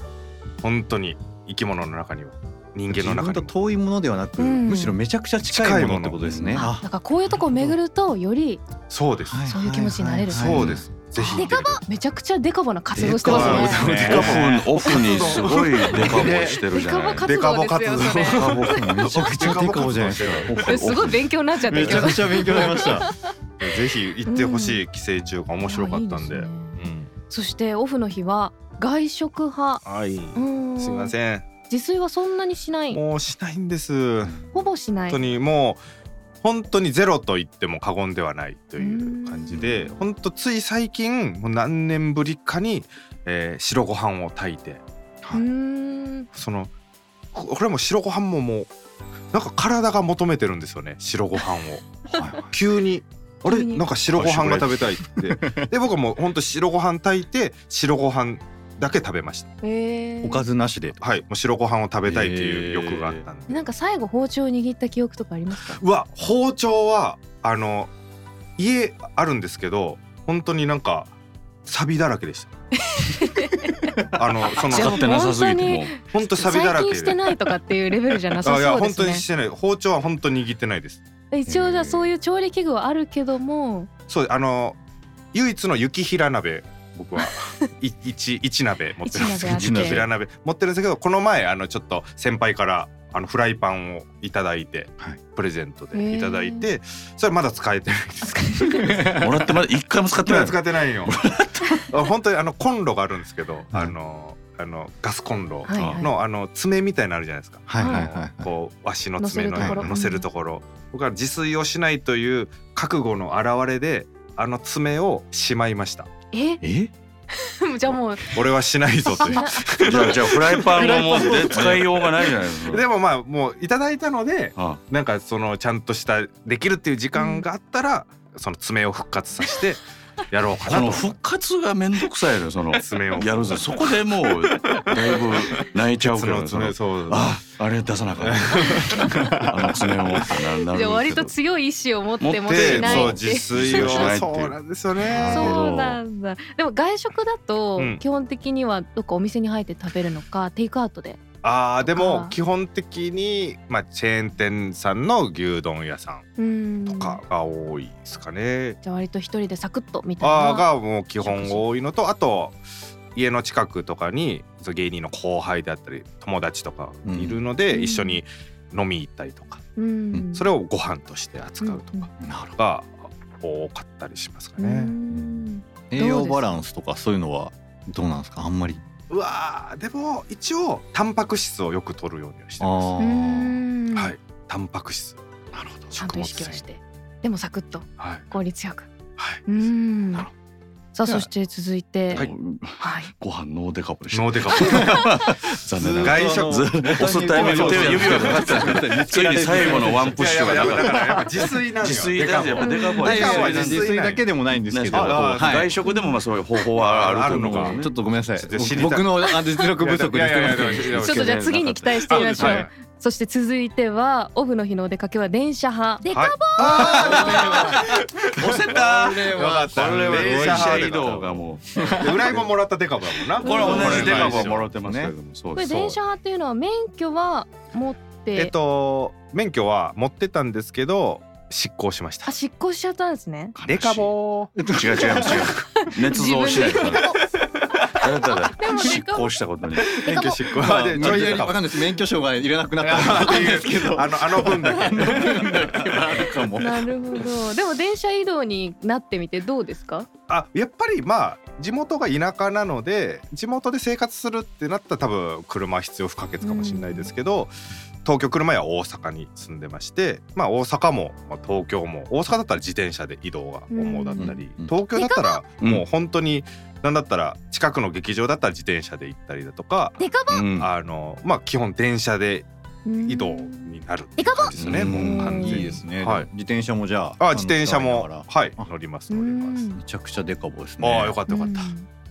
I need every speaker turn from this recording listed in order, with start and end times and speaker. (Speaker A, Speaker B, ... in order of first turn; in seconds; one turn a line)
Speaker A: 0.6-3.5
Speaker B: 2.9-6.8
Speaker C: 4.4-5.0
Speaker A: 5.5-6.2
Speaker D: 6.2-6.6
Speaker C: 6.5-8.6
Speaker A: 8.9-9.5
Speaker B: 9.2-11.4
Speaker C: 9.5-10.5
Speaker A: 10.3-11.8
Speaker D: 10.5-10.8
Speaker C: 11.3-13.8
Speaker E: 11.4-11.8
Speaker B: 12.9-14.6
Speaker A: 13.1-16.6
Speaker D: 13.3-17.3
Speaker B: 15.9-16.3
Speaker C: 16.6-18.8
Speaker A: 17.2-20.8
Speaker D: 18.4-18.8
Speaker B: 18.4-20.6
Speaker D: 20.4-21.3
Speaker C: 20.6-23.3
Speaker B: 21.6-23.1
Speaker A: 21.8-22.1
Speaker A: 23.6-27.1
Speaker C: 24.2-24.8
Speaker C: 25.6-26.8
Speaker C: 27.3-29.8
Speaker A: 29.8-31.5
Speaker C: 30.3-31.1
Speaker C: 31.7-33.0
Speaker A: 32.9-34.4
Speaker C: 34.5-35.2
Speaker A: 35.1-35.8
Speaker A: 36.4-44.8
Speaker C: 38.8-39.6
Speaker B: 39.5-39.9
Speaker C: 45.3-46.3
Speaker A: 46.3-46.7
Speaker A: 47.3-48.7
Speaker A: 49.3-51.9
Speaker B: 52.1-52.5
Speaker A: 52.5-59.5
Speaker C: 53.4-53.9
Speaker D: 54.1-54.6
Speaker B: 54.1-55.7
Speaker C: 59.6-60.5
Speaker B: 60.2-61.0
Speaker A: 61.0-63.7
Speaker B: 62.0-63.1
Speaker C: 63.5-65.8
Speaker A: 65.8-67.9
Speaker A: 68.6-71.1
Speaker A: 71.6-72.5
Speaker C: 72.9-74.0
Speaker A: 74.1-75.0
Speaker C: 74.6-79.2
Speaker D: 74.6-75.9
Speaker A: 76.1-77.2
Speaker A: 78.4-81.0
Speaker C: 81.3-83.9
Speaker B: 81.5-82.1
Speaker A: 84.1-84.8
Speaker A: 85.3-99.1
Speaker C: 89.0-90.0
Speaker B: 89.4-90.1
Speaker C: 95.9-96.7
Speaker C: 98.2-98.9
Speaker B: 98.8-99.2
Speaker D: 99.2-101.8
Speaker A: 100.2-101.1
Speaker A: 101.9-116.1
Speaker C: 105.7-106.1
Speaker D: 105.7-106.0
Speaker B: 107.7-108.5
Speaker C: 107.8-108.1
Speaker C: 109.2-110.2
Speaker B: 109.6-110.0
Speaker C: 116.3-116.6
Speaker B: 116.6-116.9
Speaker C: 117.3-118.3
Speaker A: 118.3-131.1
Speaker C: 119.2-119.7
Speaker D: 119.8-122.8
Speaker C: 127.1-127.4
Speaker D: 130.6-141.3
Speaker A: 132.8-133.9
Speaker A: 134.6-137.4
Speaker A: 138.2-139.2
Speaker C: 138.6-139.3
Speaker B: 139.2-139.6
Speaker C: 140.7-144.1
Speaker D: 142.2-146.0
Speaker A: 142.5-145.6
Speaker B: 145.2-145.5
Speaker C: 145.2-151.2
Speaker A: 147.8-148.0
Speaker A: 151.4-156.3
Speaker C: 151.8-152.3
Speaker C: 156.4-157.2
Speaker A: 156.9-158.8
Speaker C: 158.8-161.7
Speaker A: 160.2-162.6
Speaker A: 163.1-169.6
Speaker B: 167.0-167.4
Speaker C: 167.7-168.2
Speaker C: 169.8-170.5
Speaker A: 170.3-174.9
Speaker C: 171.6-172.1
Speaker B: 172.2-172.6
Speaker C: 174.6-176.5
Speaker B: 175.9-178.8
Speaker A: 179.1-183.0
Speaker B: 182.6-183.6
Speaker C: 183.0-184.1
Speaker A: 183.9-185.2
Speaker D: 185.5-185.9
Speaker A: 185.9-186.6
Speaker C: 185.9-188.9
Speaker A: 188.0-188.3
Speaker A: 189.2-189.4
Speaker C: 189.4-190.3
Speaker C: 190.9-192.2
Speaker D: 192.1-204.0
Speaker C: 192.8-193.1
Speaker A: 194.1-195.2
Speaker B: 194.6-201.3
Speaker A: 196.0-198.9
Speaker A: 199.6-204.2
Speaker C: 202.6-203.2
Speaker B: 203.0-205.7
Speaker D: 204.7-207.9
Speaker A: 204.9-205.5
Speaker C: 205.8-206.2
Speaker A: 206.8-207.8
Speaker B: 207.2-211.2
Speaker A: 208.3-211.3
Speaker D: 210.4-212.6
Speaker C: 211.0-216.0
Speaker A: 212.1-212.7
Speaker E: 216.0-217.2
Speaker A: 216.1-221.4
Speaker B: 216.6-221.0
Speaker D: 217.1-217.7
Speaker D: 218.4-222.4
Speaker B: 221.8-222.4
Speaker A: 221.9-224.7
Speaker B: 223.4-225.1
Speaker D: 223.4-225.9
Speaker C: 223.4-224.0
Speaker C: 225.5-228.5
Speaker A: 228.3-232.3
Speaker C: 232.2-233.5
Speaker D: 233.5-234.1
Speaker A: 233.7-234.5
Speaker B: 234.6-235.5
Speaker D: 234.6-237.2
Speaker C: 235.8-237.2
Speaker D: 237.9-240.0
Speaker C: 238.6-239.3
Speaker A: 239.9-241.7
Speaker B: 240.1-247.2
Speaker A: 242.8-245.8
Speaker C: 245.0-245.5
Speaker C: 246.5-250.1
Speaker A: 250.3-270.0
Speaker C: 256.4-257.1
Speaker C: 263.7-264.4
Speaker B: 264.2-264.7
Speaker E: 264.9-265.4
Speaker E: 270.0-270.5
Speaker D: 270.3-270.7
Speaker A: 270.6-272.5
Speaker C: 272.8-273.7
Speaker A: 273.0-276.3
Speaker E: 274.2-274.6
Speaker D: 274.6-275.2
Speaker B: 274.7-278.6
Speaker C: 274.9-275.7
Speaker A: 277.2-279.6
Speaker C: 279.1-279.8
Speaker B: 279.8-281.2
Speaker A: 280.8-281.7
Speaker C: 281.3-281.9